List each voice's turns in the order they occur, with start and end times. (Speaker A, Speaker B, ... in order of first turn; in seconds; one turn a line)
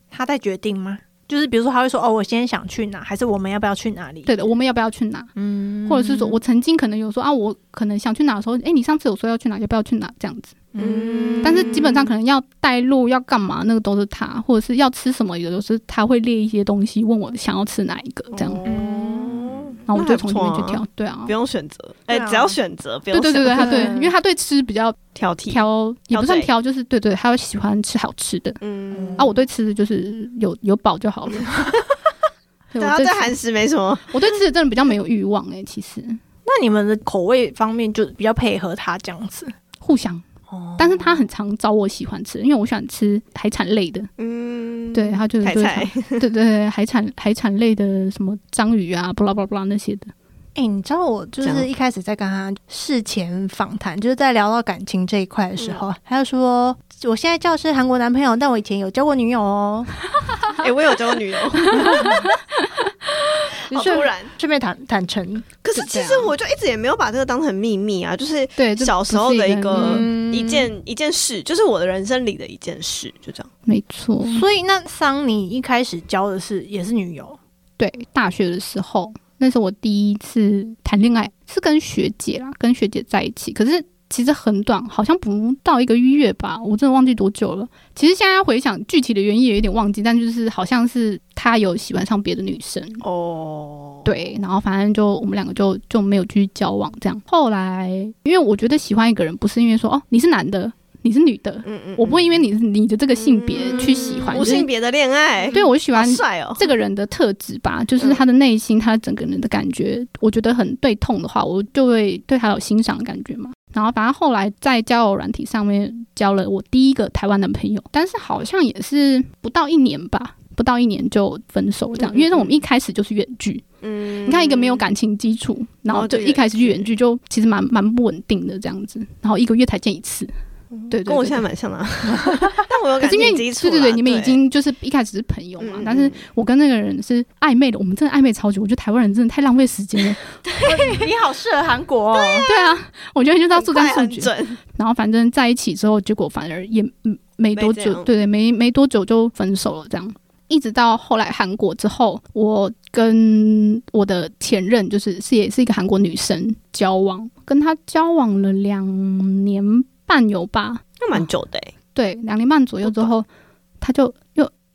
Speaker A: 0.1-4.3
Speaker B: 4.2-5.3
Speaker A: 5.3-6.4
Speaker B: 5.8-10.6
Speaker A: 10.7-11.9
Speaker C: 10.8-12.0
Speaker B: 11.4-18.6
Speaker C: 18.3-24.0
Speaker A: 18.6-19.8
Speaker B: 19.9-21.3
Speaker A: 22.1-22.6
Speaker B: 23.1-28.6
Speaker A: 23.5-24.1
Speaker C: 25.1-26.5
Speaker C: 28.6-29.3
Speaker A: 28.9-29.4
Speaker B: 29.2-31.6
Speaker C: 31.5-31.8
Speaker B: 32.7-33.4
Speaker C: 32.8-34.1
Speaker B: 34.1-36.2
Speaker A: 36.4-39.5
Speaker B: 39.8-40.2
Speaker A: 40.5-41.2
Speaker B: 40.8-44.1
Speaker C: 44.2-46.2
Speaker B: 44.9-50.1
Speaker A: 50.5-59.9
Speaker C: 51.4-51.7
Speaker C: 60.5-62.3
Speaker B: 61.6-62.9
Speaker A: 61.8-62.1
Speaker C: 63.7-64.3
Speaker A: 63.7-65.5
Speaker B: 63.7-64.0
Speaker C: 65.6-73.5
Speaker B: 65.7-66.3
Speaker B: 68.6-70.1
Speaker A: 69.7-70.7
Speaker B: 73.7-74.5
Speaker A: 74.2-77.4
Speaker B: 77.8-93.0
Speaker C: 93.0-94.0
Speaker B: 94.0-104.7
Speaker C: 101.6-102.4
Speaker C: 103.2-106.7
Speaker B: 105.5-123.7
Speaker C: 122.0-122.4
Speaker C: 123.8-124.9
Speaker B: 124.2-130.3
Speaker C: 125.9-126.9
Speaker C: 130.7-134.4
Speaker B: 130.9-131.4
Speaker A: 132.1-132.6
Speaker B: 133.0-140.2
Speaker C: 135.6-136.2
Speaker C: 140.4-141.1
Speaker A: 140.6-142.5
Speaker C: 142.1-142.7
Speaker B: 142.4-161.3
Speaker C: 143.5-144.6
Speaker C: 147.6-148.1
Speaker C: 161.0-161.7
Speaker B: 161.9-163.3
Speaker C: 162.8-163.1
Speaker B: 163.8-164.5